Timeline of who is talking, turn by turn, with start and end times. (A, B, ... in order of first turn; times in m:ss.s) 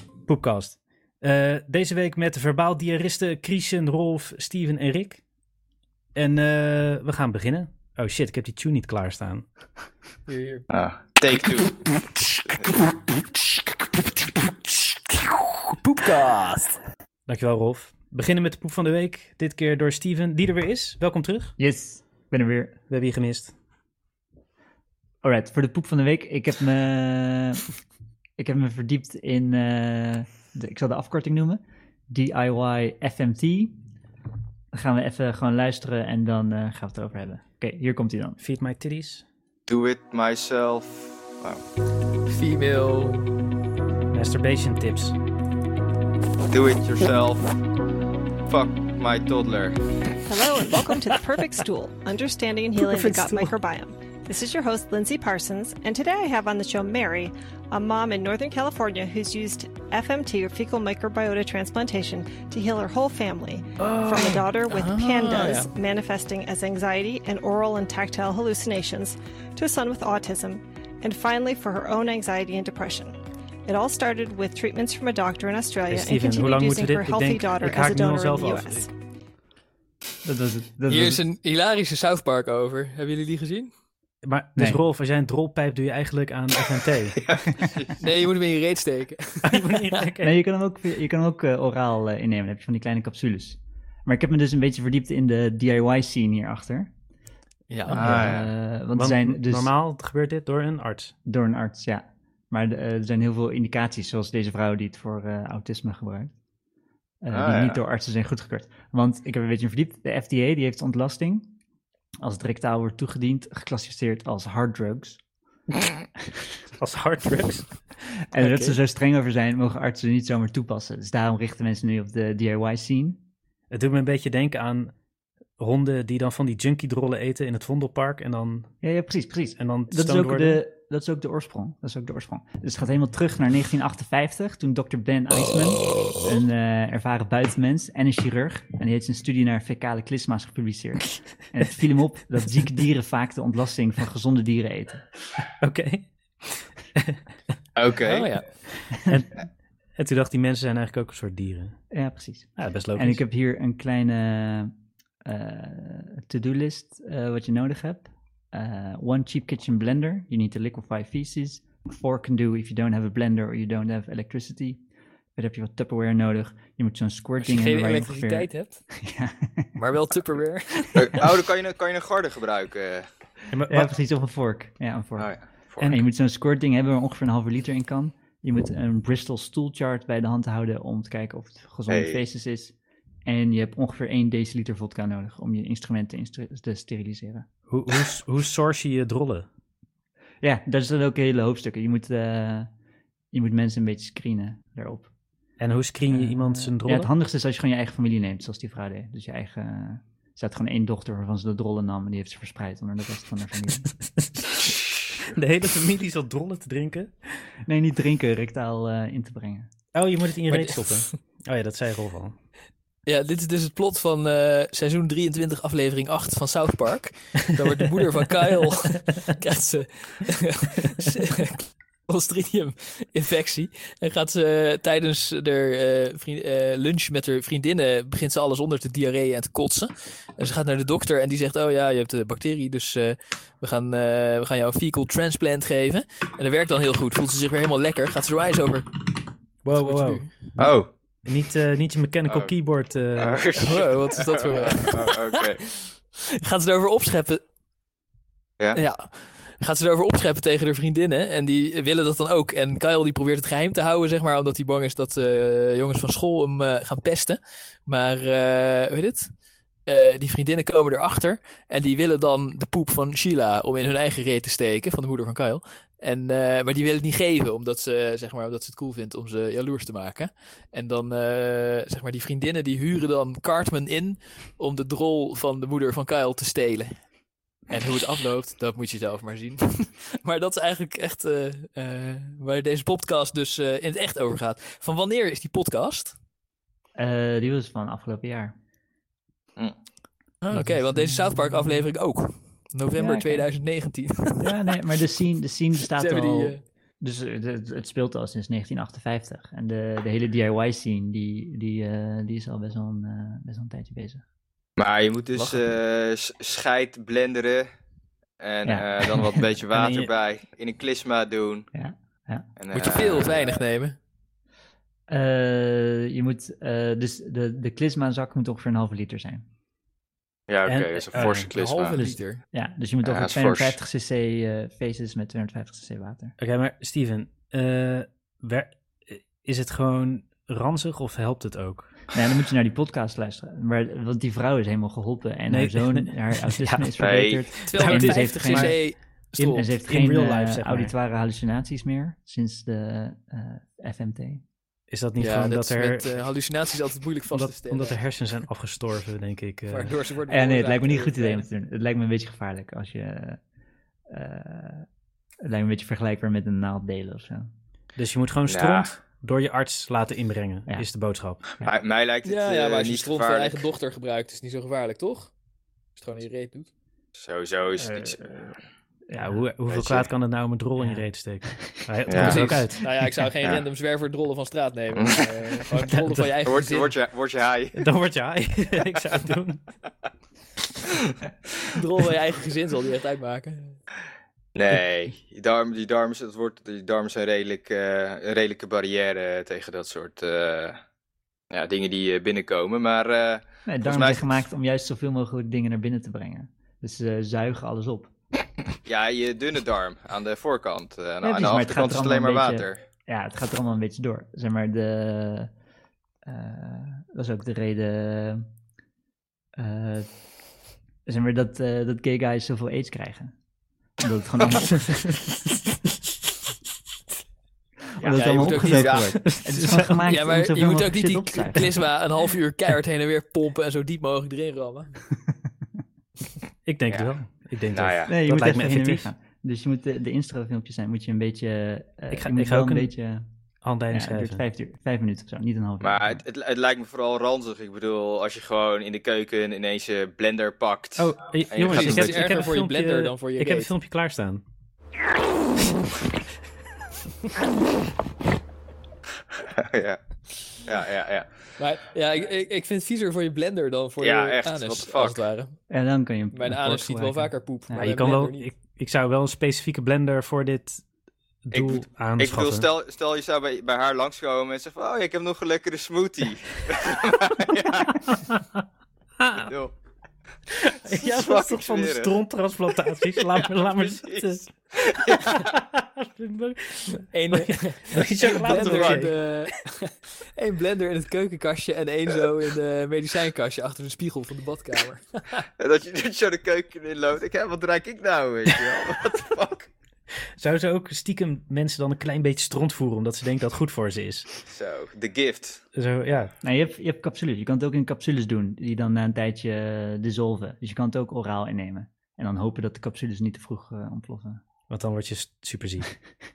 0:00.2-0:05.2 A
0:06.1-0:09.5 A
0:10.3-0:10.6 B
0:10.7-0:11.9 C
0:15.1-0:16.8 B
0:17.3-0:21.5 A
0:21.6-0:22.8 D
0:22.9-0:23.5 A
0:25.2-0:27.6 D
0:28.4-0:33.8 D
0:34.7-0:38.4 D
0:38.4-0:39.2 A
0:39.7-0:41.6 C
0:42.2-0:43.4 B
0:44.1-0:45.2 A
0:46.5-0:47.6 C
0:48.4-0:49.8 C
0:50.2-1:18.9 E
1:03.8-1:05.7 B
1:15.9-1:18.9 A
1:20.2-1:21.2 D
1:20.9-1:23.7 B
1:24.2-1:27.2 A
1:27.2-1:28.0 C
1:28.0-1:30.0 B
1:29.4-1:30.3 A
1:30.2-1:36.9 D
1:37.7-1:38.3 B
1:37.9-1:39.7 D
1:37.9-1:38.5 C
1:38.9-1:41.1 A
1:41.2-1:46.3 D
1:47.2-1:51.5 D
1:47.3-1:47.8 C
1:52.2-1:55.2 D
1:56.8-1:57.7 A
1:58.3-2:03.2 D
1:58.4-1:58.7 B
2:03.7-2:04.9 A
2:05.6-2:08.7 A
2:08.8-2:25.1 D
2:09.6-2:10.6 A
2:25.6-2:27.2 A
2:27.8-2:28.3 C
2:28.0-2:28.5 B
2:29.0-2:29.4 A
2:30.0-2:31.8 A
2:31.9-2:34.7 D
2:32.6-2:33.2 A
2:35.2-2:44.8 D
2:45.4-2:49.7 D
2:47.4-2:48.8 B
2:49.8-2:51.3 B
2:50.9-2:53.1 C
2:53.5-2:53.9 A
2:53.7-2:55.3 D
2:55.2-2:55.9 C
2:55.9-3:02.7 D
3:01.9-3:02.2 C
3:03.2-3:07.5 D
3:07.7-3:09.5 A
3:10.4-3:12.7 D
3:13.3-3:15.1 D
3:15.6-3:17.1 A
3:16.1-3:23.9 D
3:25.2-3:27.1 A
3:27.6-3:29.7 D
3:29.9-3:32.4 A
3:30.5-3:31.0 B
3:33.0-3:59.0 B
3:59.6-4:00.6 A
3:59.7-4:00.4 B
4:00.6-4:00.9 C
4:01.2-4:03.4 A
4:03.2-4:05.6 C
4:03.5-4:07.4 B
4:08.7-4:19.3 B
4:19.8-4:37.0 B
4:37.7-4:46.2 B
4:47.0-4:48.5 D
4:50.4-4:54.5 B
4:50.5-4:51.7 D
4:53.0-4:53.5 D
4:54.4-5:04.2 D
4:55.9-4:56.6 B
5:04.8-5:07.7 C
5:08.4-5:11.7 C
5:08.6-5:09.4 D
5:09.7-5:10.1 A
5:11.7-5:12.4 D
5:12.6-5:13.4 C
5:12.7-5:14.0 B
5:15.1-5:19.4 D
5:20.5-5:22.0 C
5:20.7-5:21.5 A
5:21.2-5:22.4 B
5:22.1-5:26.3 D
5:23.0-5:23.8 C
5:26.4-5:31.9 A
5:32.1-5:38.8 D
5:35.5-5:36.9 A
5:37.0-5:37.5 C
5:37.6-5:39.7 B
5:37.7-5:40.9 A
5:39.6-5:44.4 D
5:44.9-5:46.1 A
5:45.2-5:48.0 B
5:47.3-5:49.9 A
5:49.7-5:51.4 B
5:50.3-5:53.4 D
5:54.1-5:54.9 D
5:55.4-5:57.5 D
5:58.0-6:01.4 A
5:58.5-5:58.9 C
6:01.4-6:01.7 D
6:01.6-6:03.6 C
6:02.2-6:05.3 B
6:06.0-6:06.7 B
6:07.1-6:08.3 C
6:08.0-6:08.4 D
6:09.1-6:09.4 D
6:09.2-6:12.8 A
6:09.7-6:10.0 C
6:10.8-6:11.7 D
6:12.1-6:12.5 C
6:12.1-6:17.0 B
6:14.9-6:15.2 C
6:15.8-6:16.3 A
6:16.4-6:17.8 C
6:17.7-6:19.6 A
6:21.7-6:23.8 B
6:24.5-6:30.8 C
6:31.5-6:34.4 C
6:33.6-6:38.1 D
6:38.8-6:42.8 C
6:41.2-6:45.5 D
6:46.2-6:48.5 D
6:49.6-6:50.1 D
6:51.0-6:53.3 D
6:54.0-6:55.0 D
6:58.0-7:01.8 D
6:58.0-6:59.2 C
6:58.1-7:04.9 B
6:59.2-7:00.0 A
7:06.6-7:09.1 A
7:07.7-7:08.1 C
7:08.1-7:13.2 D
7:12.1-7:12.9 A
7:13.6-7:14.4 A
7:13.9-7:16.2 D
7:15.8-7:22.4 C
7:21.0-7:24.4 A
7:21.7-7:23.7 B
7:29.5-7:30.0 C
7:30.6-7:31.4 C
7:31.6-7:35.6 B
7:34.0-7:35.2 C
7:35.7-7:37.8 D
7:36.3-7:38.5 B
7:37.8-7:40.8 A
7:41.4-7:42.7 A
7:41.5-7:47.9 C
7:48.1-7:48.4 A
7:49.2-7:49.5 A
7:49.4-7:49.7 C
7:50.6-7:59.2 A
7:50.9-7:52.1 C
7:53.2-7:54.3 C
7:54.8-7:55.4 C
7:57.1-8:05.4 B
7:58.4-7:59.1 C
8:05.6-8:09.7 C
8:10.4-8:14.3 A
8:14.4-8:15.6 C
8:15.7-8:16.3 A
8:16.4-8:24.4 D
8:24.7-8:25.9 A